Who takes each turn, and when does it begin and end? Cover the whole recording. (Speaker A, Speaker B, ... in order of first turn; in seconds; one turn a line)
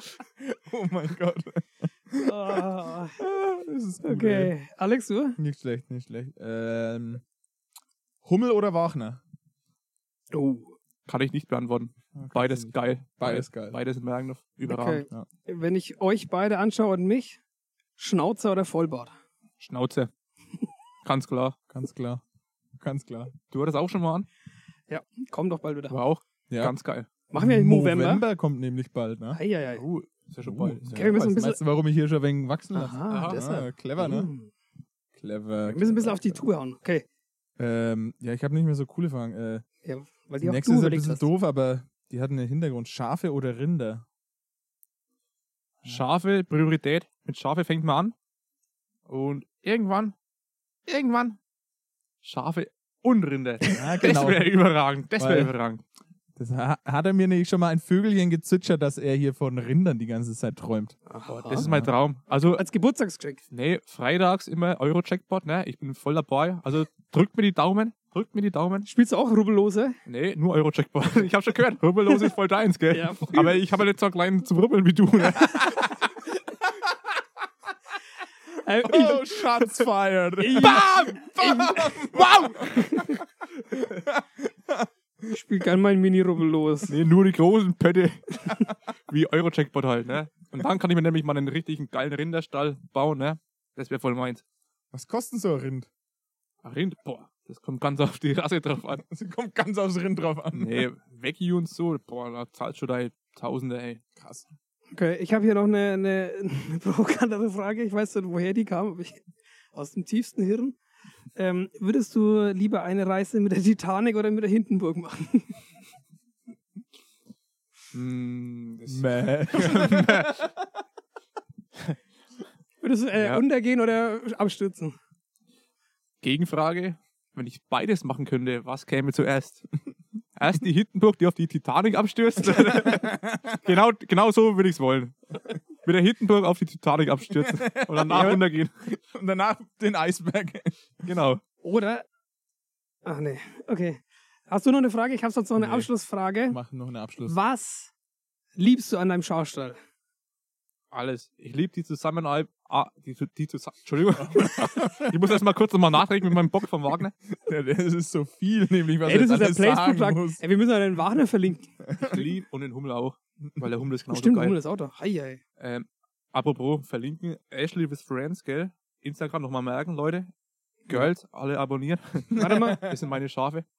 Speaker A: 0.4-4.5
Speaker B: 2.2-3.2
Speaker B: 4.0-5.4
Speaker A: 5.4-7.2
Speaker A: 8.2-9.2
Speaker B: 10.3-10.7
Speaker C: 11.1-15.0
Speaker A: 12.2-13.8
Speaker B: 14.7-17.4
Speaker B: 18.0-19.1
Speaker C: 19.6-20.1
Speaker C: 21.1-21.6
Speaker A: 21.7-22.2
Speaker A: 22.8-23.3
Speaker C: 23.5-24.3
Speaker B: 24.9-26.0
Speaker C: 25.9-27.1
Speaker A: 26.5-26.8
Speaker B: 27.3-28.2
Speaker A: 27.4-29.4
Speaker B: 29.3-29.8
Speaker C: 29.8-31.2
Speaker A: 30.4-34.3
Speaker B: 30.9-31.6
Speaker B: 32.7-34.5
Speaker C: 33.1-33.4
Speaker A: 35.1-36.4
Speaker B: 35.6-37.0
Speaker A: 37.6-39.6
Speaker B: 39.8-41.3
Speaker A: 40.4-44.1
Speaker C: 45.8-48.1
Speaker C: 49.1-50.1
Speaker C: 50.9-51.4
Speaker C: 52.2-55.8
Speaker A: 53.8-54.5
Speaker A: 55.2-55.5
Speaker A: 56.4-61.0
Speaker B: 61.1-61.7
Speaker C: 61.3-62.6
Speaker A: 61.5-61.9
Speaker B: 62.6-63.4
Speaker C: 63.5-68.9
Speaker B: 68.9-70.0
Speaker C: 70.1-76.0
Speaker B: 72.9-73.6
Speaker B: 78.6-79.6
Speaker A: 78.9-83.2
Speaker B: 80.4-83.2
Speaker C: 80.6-81.2
Speaker C: 82.2-82.7
Speaker A: 83.7-84.9
Speaker B: 85.3-87.0
Speaker C: 86.9-94.4
Speaker A: 94.9-95.9
Speaker C: 96.6-99.0
Speaker A: 99.1-100.9
Speaker C: 100.5-104.0
Speaker A: 104.2-104.5
Speaker B: 104.9-110.8
Speaker B: 111.3-115.6
Speaker C: 117.9-120.4
Speaker A: 118.9-120.6
Speaker B: 122.8-125.0
Speaker C: 123.2-123.4
Speaker C: 126.2-129.7
Speaker C: 130.4-138.7
Speaker A: 132.6-133.6
Speaker A: 137.4-140.9
Speaker C: 141.0-141.4
Speaker B: 141.6-142.1
Speaker B: 143.1-146.6
Speaker A: 145.6-145.9
Speaker A: 146.5-147.4
Speaker B: 147.2-147.9
Speaker B: 148.6-149.8
Speaker C: 150.9-157.1
Speaker A: 154.2-155.2
Speaker A: 157.3-160.4
Speaker B: 159.0-161.7
Speaker A: 161.8-162.3
Speaker C: 162.0-164.6
Speaker B: 164.1-165.4
Speaker C: 165.6-170.3
Speaker C: 170.9-173.7
Speaker B: 172.3-172.8
Speaker A: 172.3-172.9